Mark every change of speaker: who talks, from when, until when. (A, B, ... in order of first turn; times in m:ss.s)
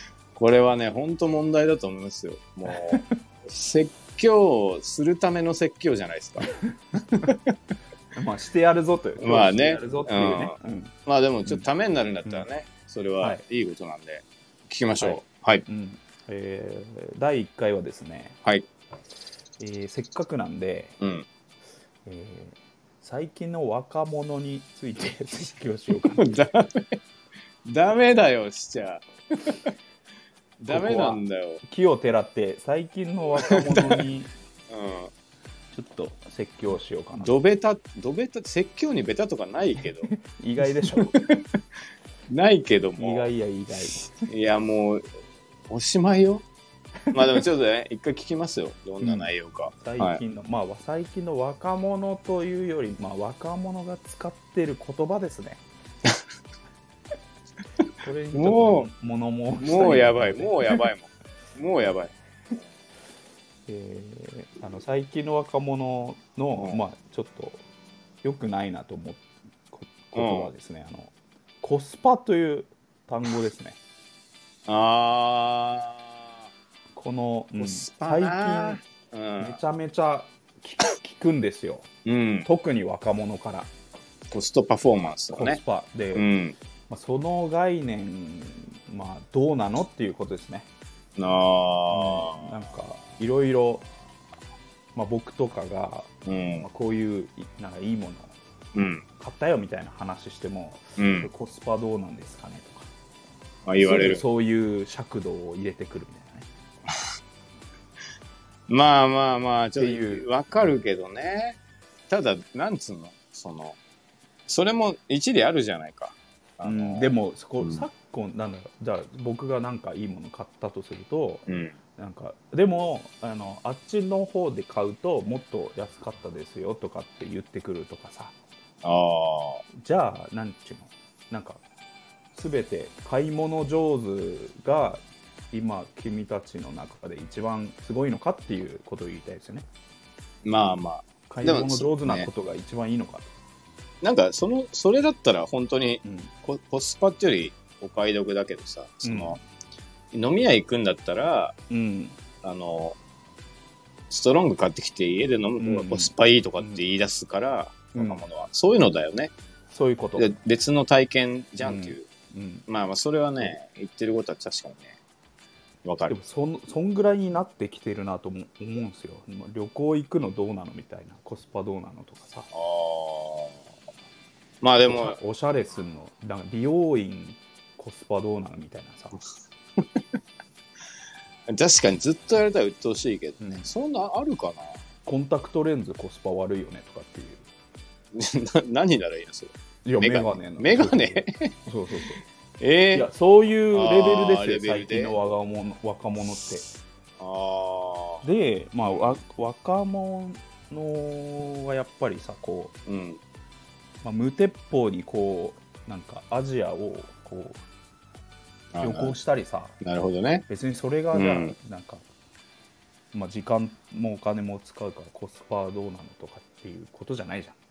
0:00.4-0:06.5 A
0:02.7-0:03.1 B
0:06.7-0:07.3 B
0:07.1-0:07.5 A
0:08.1-0:10.9 B
0:09.2-0:15.6 A
0:15.0-0:18.4 B
0:19.6-0:21.0 B
0:21.0-0:21.2 A
0:22.0-0:26.2 B
0:26.2-0:27.0 A
0:27.6-0:29.7 A
0:30.6-0:31.6 A
0:30.7-0:34.3 B
0:33.4-0:34.0 A
0:34.7-0:35.1 A
0:35.7-0:37.3 B
0:37.2-0:40.1 A
0:39.8-0:41.2 B
0:40.9-0:41.4 A
0:42.3-0:43.3 A
0:43.0-0:44.3 B
0:44.2-0:45.0 A
0:45.7-0:46.4 A
0:47.1-0:50.2 A
0:49.0-0:55.6 B
0:58.0-1:00.9 B
0:58.3-0:58.9 A
0:59.6-1:02.1 A
1:03.7-1:07.6 B
1:08.2-1:13.8 B
1:10.1-1:10.5 A
1:14.7-1:16.3 A
1:16.9-1:18.8 B
1:17.5-1:19.6 A
1:19.4-1:21.9 B
1:22.0-1:22.5 A
1:22.4-1:23.7 B
1:24.3-1:25.6 A
1:25.3-1:26.3 B
1:26.1-1:26.6 A
1:26.9-1:30.7 B
1:31.2-1:32.5 A
1:31.9-1:33.9 B
1:34.9-1:38.3 B
1:36.2-1:36.6 A
1:38.7-1:39.0 A
1:39.2-1:42.9 B
1:41.0-1:41.3 A
1:43.6-1:44.2 A
1:43.8-1:46.5 B
1:48.7-1:53.8 A
1:49.8-1:50.3 B
1:54.5-1:57.8 A
1:56.6-2:08.3 B
2:01.5-2:01.7 A
2:08.8-2:09.6 A
2:09.8-2:11.6 B
2:12.3-2:19.6 B
2:20.4-2:22.3 A
2:21.3-2:23.3 B
2:24.0-2:29.4 A
2:26.0-2:26.3 B
2:29.0-2:29.4 B
2:30.1-2:31.5 A
2:31.7-2:32.2 B
2:32.4-2:33.0 A
2:34.1-2:39.3 A
2:35.6-2:36.8 B
2:37.9-2:38.2 B
2:39.7-2:40.3 B
2:40.2-2:42.1 A
2:41.6-2:42.6 B
2:42.7-2:45.0 A
2:45.8-2:46.2 A
2:46.1-2:52.5 B
2:52.5-2:53.6 A
2:54.6-2:55.2 A
2:54.9-2:59.2 B
3:01.5-3:04.8 A
3:03.4-3:03.7 B
3:05.0-3:07.4 B
3:08.1-3:11.5 A
3:09.8-3:12.2 B
3:12.6-3:13.1 A
3:12.9-3:16.7 B
3:13.7-3:15.2 A
3:17.2-3:18.2 A
3:18.2-3:22.8 B
3:22.8-3:23.2 A
3:24.0-3:27.6 B
3:28.7-3:29.1 A
3:28.8-3:29.8 B
3:29.8-3:30.4 A
3:30.5-3:32.0 B
3:31.1-3:31.5 A
3:33.1-3:37.6 B